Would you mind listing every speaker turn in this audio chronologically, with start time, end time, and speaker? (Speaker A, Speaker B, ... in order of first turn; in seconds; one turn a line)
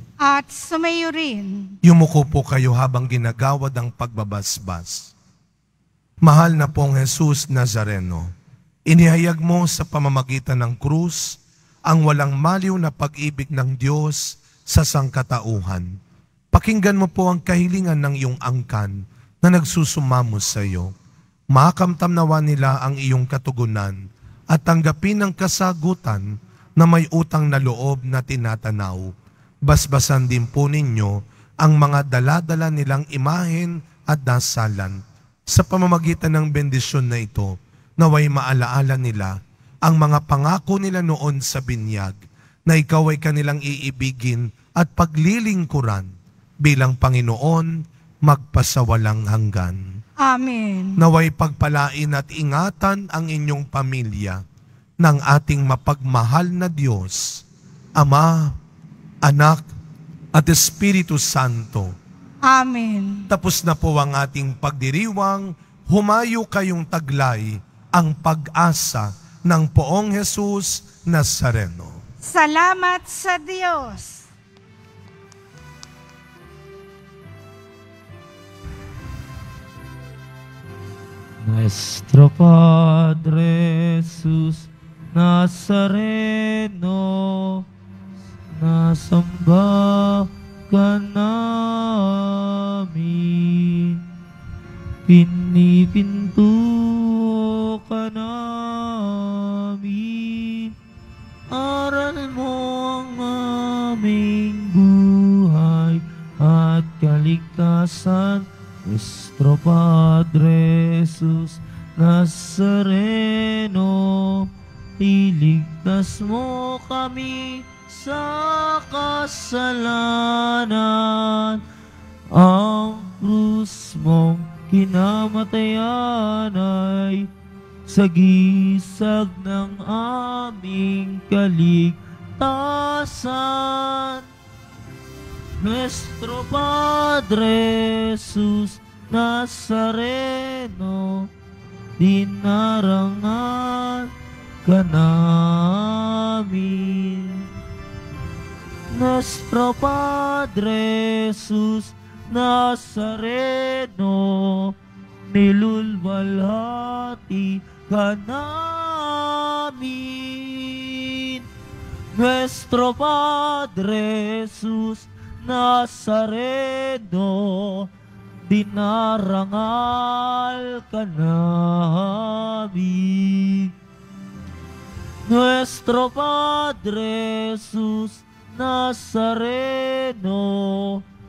Speaker A: 0.2-1.8
Speaker B: 1.8-5.1
Speaker B: 6.2-8.3
Speaker B: 8.9-16.0
Speaker B: 16.5-20.9
Speaker B: 21.5-24.0
Speaker B: 24.5-26.3
Speaker B: 26.8-29.1
Speaker B: 29.6-46.1
Speaker B: 46.6-49.9
Speaker A: 50.2-51.0
Speaker B: 51.0-54.4
Speaker B: 55.0-57.4
Speaker B: 58.0-58.6
Speaker B: 59.2-59.7
Speaker B: 60.3-61.9
Speaker A: 62.5-63.3
Speaker B: 63.3-72.0
Speaker A: 72.3-74.2
Speaker C: 81.4-87.6
Speaker C: 88.5-94.0
Speaker C: 95.1-100.7
Speaker C: 101.5-121.6
Speaker C: 122.3-127.3
Speaker C: 127.9-134.2
Speaker C: 135.6-141.3
Speaker C: 142.0-144.1
Speaker C: 144.6-147.5
Speaker C: 148.9-154.7
Speaker C: 155.3-161.4
Speaker C: 162.1-167.9
Speaker C: 168.5-173.7
Speaker C: 175.3-181.0